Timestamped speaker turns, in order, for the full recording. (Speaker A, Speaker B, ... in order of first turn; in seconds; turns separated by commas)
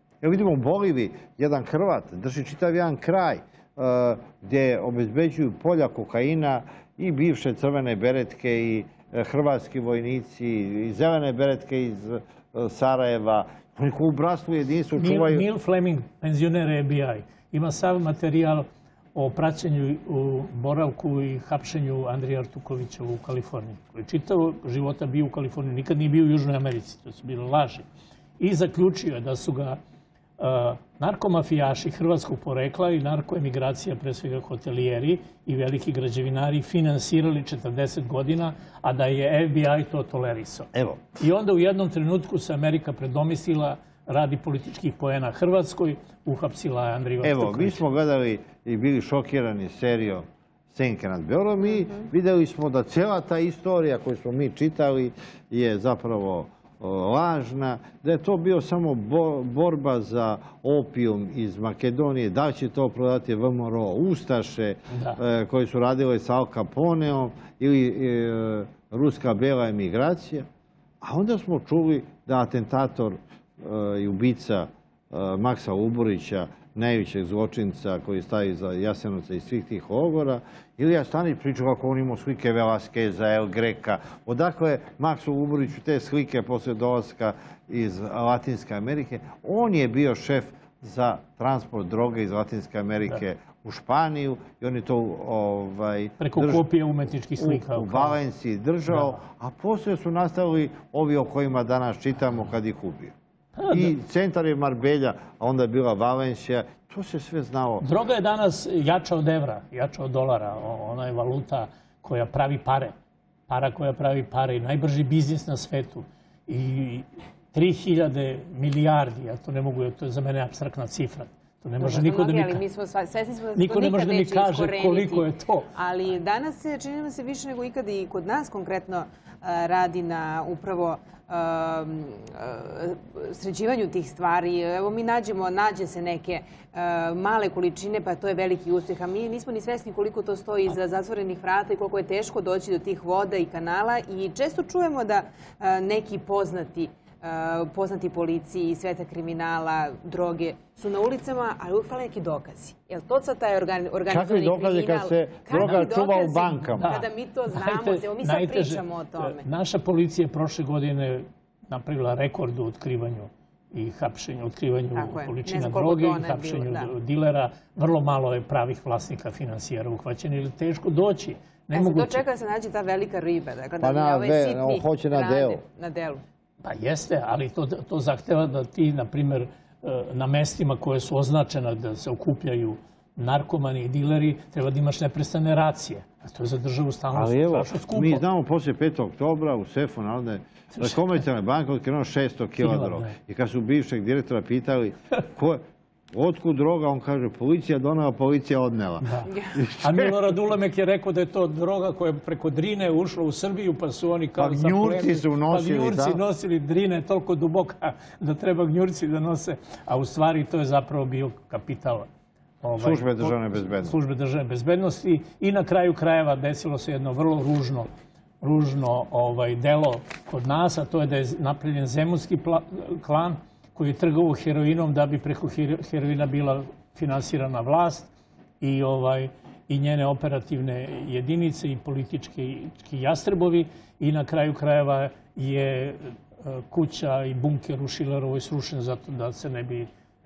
Speaker A: 0.2-15.4, Speaker B: 15.0-27.9, Speaker B: 28.4-29.8, Speaker B: 30.4-47.9, Speaker A: 40.7-41.0, Speaker A: 47.2-70.5, Speaker B: 64.9-65.2, Speaker A: 71.0-96.7, Speaker B: 96.2-98.2, Speaker A: 97.4-103.2, Speaker B: 98.9-99.2, Speaker B: 103.6-103.9, Speaker A: 103.7-107.8, Speaker B: 107.8-112.9, Speaker B: 113.5-122.6, Speaker C: 121.8-159.5, Speaker B: 123.6-125.7, Speaker A: 154.1-156.9, Speaker B: 156.8-172.2, Speaker C: 164.9-166.9, Speaker C: 171.7-176.2, Speaker A: 173.8-175.6, Speaker B: 176.6-188.2, Speaker A: 187.1-195.6, Speaker B: 190.7-191.2, Speaker B: 192.6-193.2, Speaker A: 196.1-200.2, Speaker B: 199.0-212.1, Speaker C: 199.3-199.6, Speaker A: 204.4-206.2, Speaker B: 212.6-217.9, Speaker A: 212.8-214.0, Speaker B: 218.4-228.1, Speaker B: 228.6-239.9